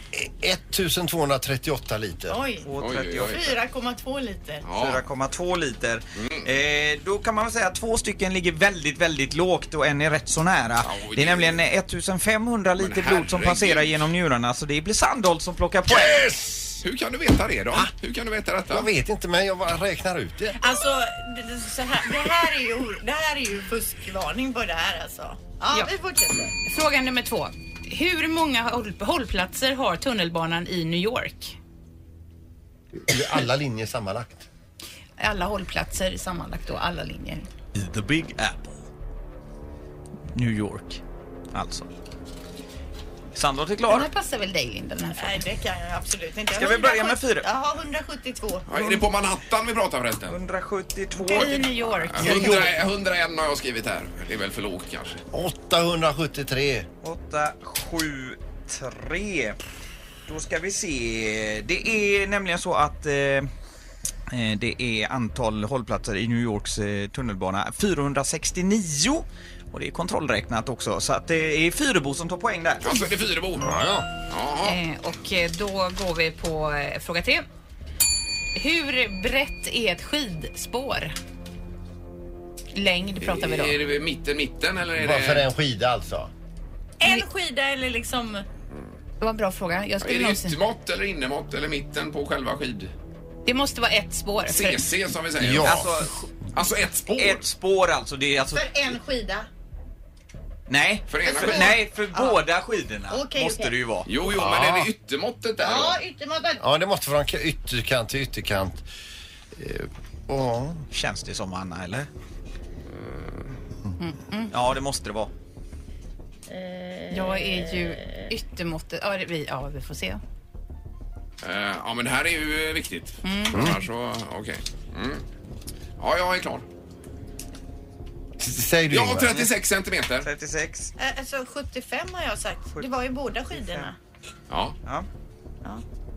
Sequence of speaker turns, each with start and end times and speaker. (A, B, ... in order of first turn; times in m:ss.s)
0:00.1-0:02.4 A
0:02.3-0:04.6 B
0:02.6-0:03.5 C
0:02.8-0:03.5 D
0:04.6-0:05.0 D
0:04.7-0:16.2 C
0:06.2-0:06.5 D
0:10.8-0:11.6 D
0:12.8-0:13.9 D
0:15.9-0:16.8 A
0:16.8-0:18.9 D
0:18.7-0:20.6 A
0:20.6-0:26.6 B
0:26.6-0:31.6 E
0:33.0-0:34.4 A
0:35.2-0:37.5 E
0:37.7-0:38.8 C
0:40.3-0:41.0 C
0:41.5-0:41.9 C
0:43.3-0:44.1 C
0:43.9-0:45.4 E
0:45.1-0:48.7 B
0:46.5-0:47.4 C
0:48.7-0:50.4 D
0:50.3-0:52.8 C
0:51.3-0:52.6 E
0:51.3-0:55.2 D
0:55.3-0:56.9 A
0:57.0-0:59.6 C
1:00.3-1:03.5 C
1:04.3-1:13.0 C
1:12.8-1:13.7 D
1:13.6-1:14.1 A
1:14.3-1:14.8 D
1:14.6-1:17.4 E
1:18.6-1:21.1 E
1:22.7-1:23.8 E
1:23.2-1:25.5 D
1:25.0-1:26.3 A
1:27.0-1:28.4 B
1:29.2-1:30.6 E
1:30.0-1:32.9 D
1:33.4-1:34.8 E
1:34.4-1:35.9 D
1:35.4-1:35.9 A
1:35.6-1:36.3 C
1:36.5-1:37.4 D
1:37.1-1:38.9 C
1:38.5-1:39.5 B
1:40.7-1:44.1 C
1:41.1-1:41.8 D
1:41.2-1:42.4 B
1:43.1-1:43.8 B
1:44.0-1:46.0 D
1:44.3-1:44.9 A
1:45.6-1:46.6 B
1:46.6-1:48.8 A
1:49.5-1:50.8 A
1:50.9-1:52.1 C
1:53.0-1:53.5 D
1:54.0-1:54.5 E
1:54.5-1:55.3 C
1:56.5-1:58.3 B
1:57.1-2:00.2 E
2:01.4-2:05.2 D
2:03.2-2:03.7 E
2:03.5-2:03.8 A
2:06.0-2:06.6 D
2:08.4-2:09.4 A
2:08.9-2:10.3 D
2:10.2-2:10.9 C
2:11.0-2:14.0 B
2:13.5-2:13.8 C
2:14.5-2:14.8 D